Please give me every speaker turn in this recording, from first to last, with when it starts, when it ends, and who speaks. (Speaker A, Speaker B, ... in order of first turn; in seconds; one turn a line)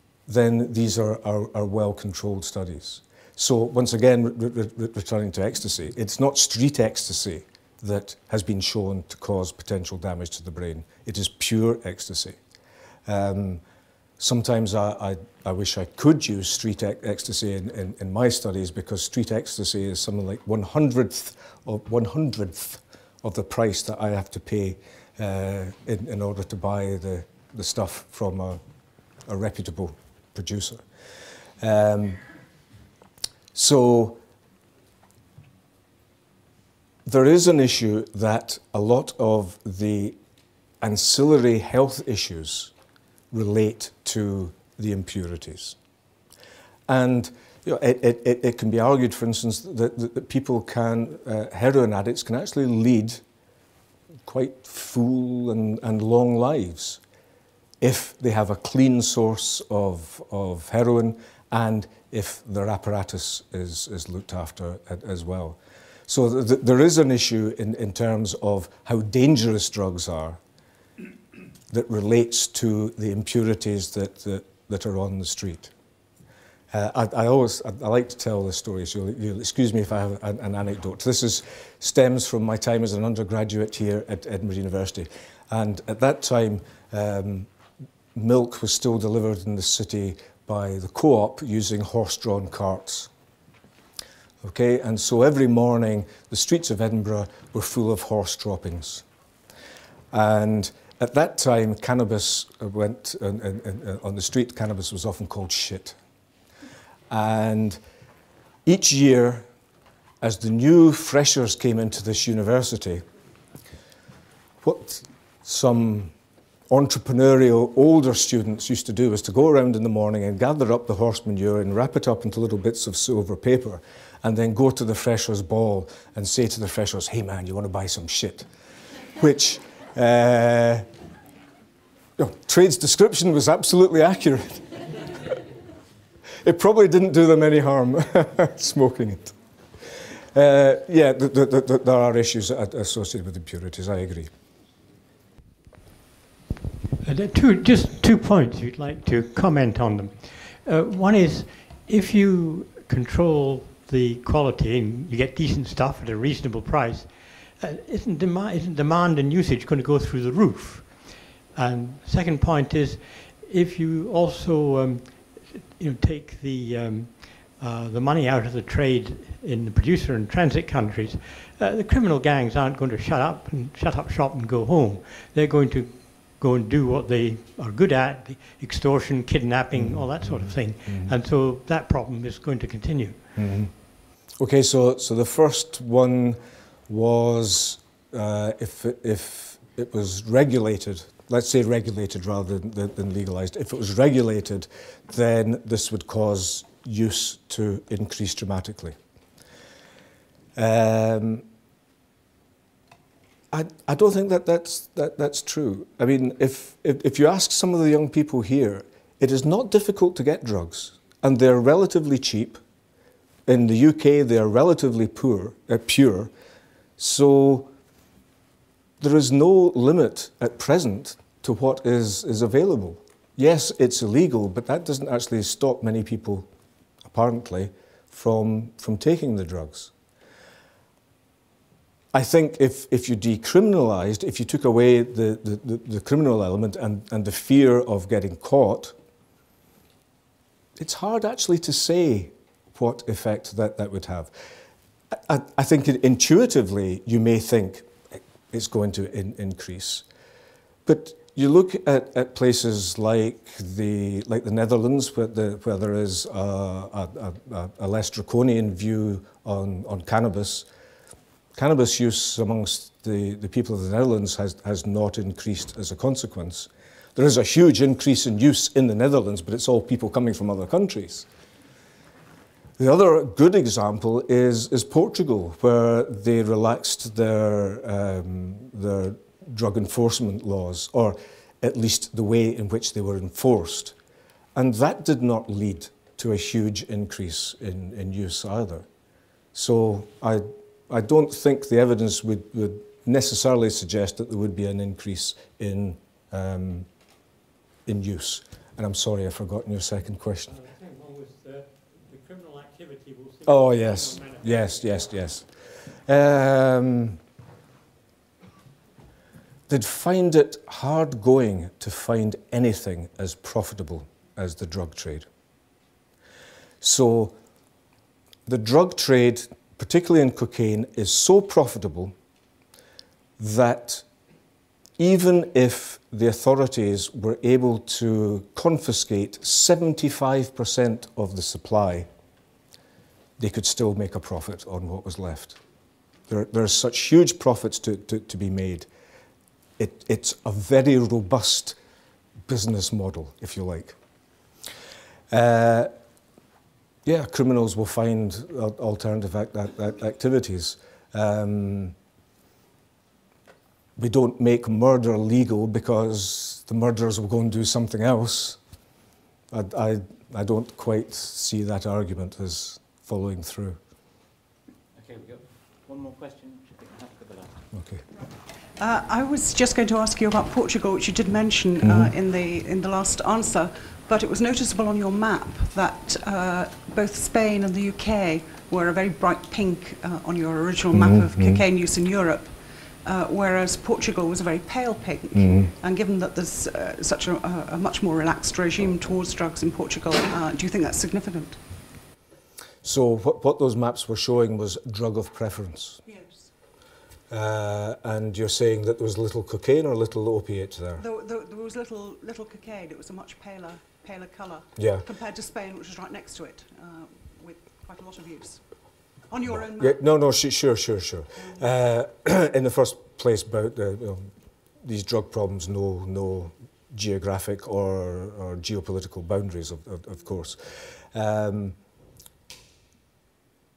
Speaker A: 0.3-12.4
Speaker A: 13.1-13.6
Speaker A: 14.2-28.6
Speaker A: 29.3-30.8
Speaker A: 31.6-32.2
Speaker A: 33.5-34.2
Speaker A: 37.0-40.2
Speaker A: 40.8-42.7
Speaker A: 43.3-45.8
Speaker A: 46.9-53.2
Speaker A: 54.3-57.0
Speaker A: 57.8-70.4
Speaker A: 71.7-75.7
Speaker A: 76.7-87.5
Speaker A: 88.1-93.1
Speaker A: 94.4-99.0
Speaker A: 100.1-106.0
Speaker A: 107.1-107.8
Speaker A: 108.7-109.5
Speaker A: 110.2-113.0
Speaker A: 114.6-116.1
Speaker A: 116.7-128.5
Speaker A: 129.2-130.8
Speaker A: 132.2-134.8
Speaker A: 136.4-139.3
Speaker A: 140.3-144.3
Speaker B: 147.0-183.4
Speaker A: 179.7-181.2
Speaker A: 183.3-183.7
Speaker A: 184.4-198.9
Speaker A: 200.6-201.4
Speaker A: 203.5-212.6
Speaker A: 213.5-216.3
Speaker A: 217.0-217.7
Speaker A: 219.0-226.5
Speaker A: 227.1-229.9
Speaker A: 232.1-238.9
Speaker A: 240.8-244.3
Speaker A: 245.1-250.1
Speaker A: 250.8-260.7
Speaker A: 261.6-271.3
Speaker A: 272.8-283.9
Speaker A: 284.6-288.9
Speaker A: 289.5-296.9
Speaker A: 297.9-300.6
Speaker B: 300.4-305.1
Speaker A: 303.4-305.5
Speaker A: 306.1-307.2
Speaker A: 309.7-315.3
Speaker A: 316.8-317.4
Speaker A: 318.4-322.1
Speaker A: 323.4-324.1
Speaker A: 325.0-332.1
Speaker A: 333.4-335.6
Speaker A: 336.3-338.9
Speaker A: 339.8-341.8
Speaker A: 342.5-343.9
Speaker A: 345.3-345.9
Speaker A: 347.1-351.9
Speaker A: 354.0-358.6
Speaker A: 359.5-363.8
Speaker C: 364.9-367.6
Speaker A: 367.7-368.0
Speaker D: 368.8-382.5
Speaker A: 371.8-372.1
Speaker A: 380.9-381.6
Speaker D: 383.0-391.6
Speaker A: 385.3-385.7
Speaker A: 392.8-396.0
Speaker D: 396.1-396.5
Speaker A: 397.3-401.0
Speaker D: 401.0-408.6
Speaker A: 404.8-405.1
Speaker D: 409.3-410.0
Speaker A: 409.4-414.3
Speaker D: 411.4-411.6
Speaker A: 414.8-421.8